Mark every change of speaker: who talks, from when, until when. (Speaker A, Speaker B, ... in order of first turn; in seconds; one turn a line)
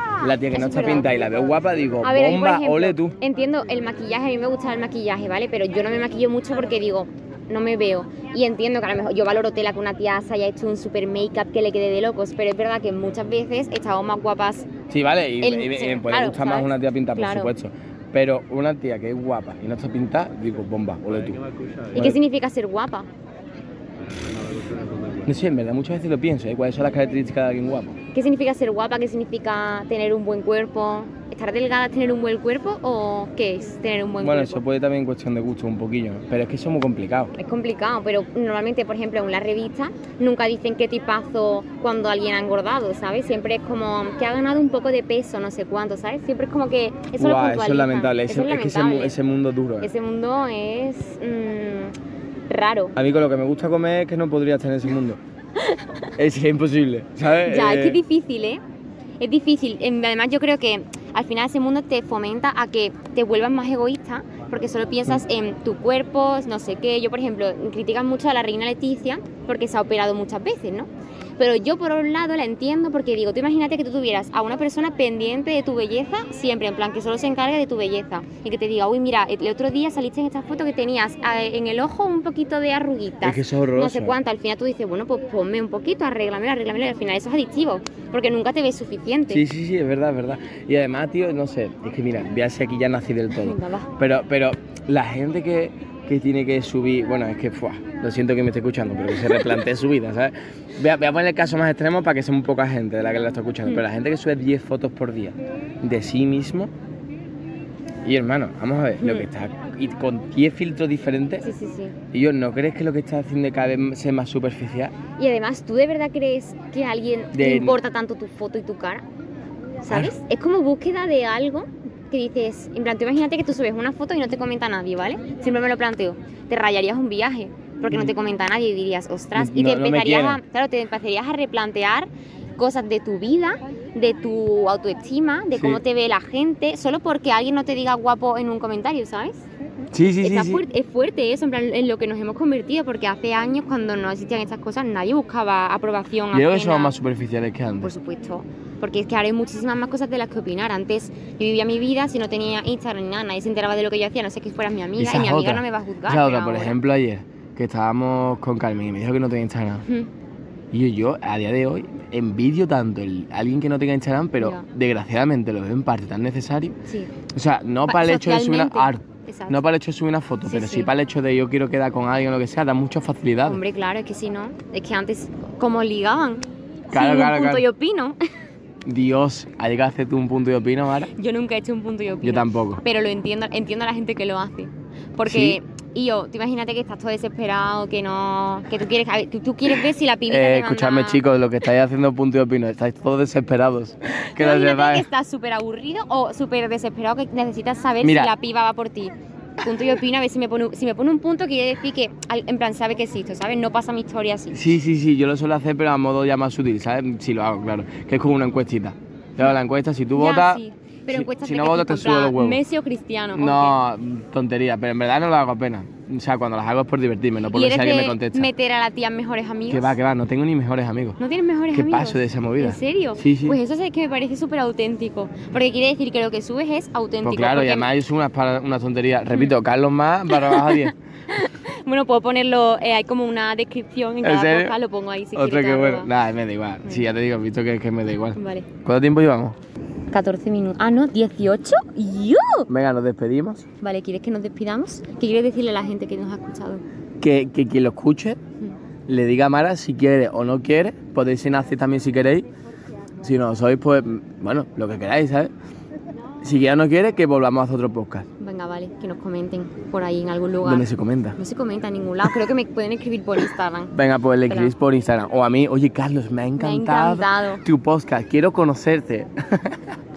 Speaker A: 0.2-3.2
Speaker B: 0.4-1.1
Speaker B: 2.0-14.7
Speaker A: 14.9-21.4
Speaker B: 15.4-17.5
Speaker A: 21.9-22.2
Speaker B: 21.9-23.1
Speaker A: 25.2-28.0
Speaker B: 28.1-34.6
Speaker A: 34.2-37.3
Speaker B: 37.4-49.2
Speaker A: 47.2-49.9
Speaker B: 49.8-52.0
Speaker B: 52.5-52.9
Speaker A: 53.0-55.2
Speaker A: 56.2-58.0
Speaker B: 57.4-58.6
Speaker B: 59.2-89.4
Speaker A: 83.2-84.2
Speaker A: 89.3-106.7
Speaker B: 93.4-93.9
Speaker A: 108.0-111.5
Speaker B: 109.0-109.3
Speaker B: 111.4-112.0
Speaker A: 112.1-114.9
Speaker B: 115.2-119.0
Speaker A: 117.3-117.8
Speaker B: 119.8-139.4
Speaker A: 119.9-120.1
Speaker A: 129.3-130.4
Speaker A: 135.5-135.8
Speaker A: 139.9-140.6
Speaker B: 140.2-147.0
Speaker A: 146.3-147.9
Speaker B: 147.8-156.8
Speaker A: 155.0-159.9
Speaker A: 160.7-166.8
Speaker B: 164.4-164.7
Speaker B: 166.9-167.1
Speaker A: 167.3-173.6
Speaker B: 167.8-169.6
Speaker B: 170.4-170.9
Speaker B: 173.4-178.2
Speaker A: 176.9-177.7
Speaker A: 178.9-181.1
Speaker B: 181.1-191.2
Speaker A: 182.2-182.8
Speaker A: 185.3-185.6
Speaker A: 190.3-195.1
Speaker B: 194.4-204.6
Speaker A: 198.0-198.3
Speaker A: 204.5-212.6
Speaker B: 210.1-213.8
Speaker A: 213.3-218.5
Speaker B: 217.5-220.0
Speaker A: 219.7-221.2
Speaker B: 221.2-227.9
Speaker A: 221.7-223.6
Speaker A: 227.2-230.9
Speaker B: 230.3-236.1
Speaker A: 234.2-234.8
Speaker A: 235.3-239.6
Speaker B: 238.4-238.7
Speaker B: 240.1-242.7
Speaker A: 242.7-243.7
Speaker B: 243.8-246.8
Speaker A: 247.2-248.4
Speaker A: 249.1-252.5
Speaker A: 253.2-255.5
Speaker A: 256.4-258.3
Speaker B: 258.4-263.9
Speaker A: 260.6-261.4
Speaker A: 263.9-269.9
Speaker B: 264.5-264.7
Speaker B: 266.6-267.6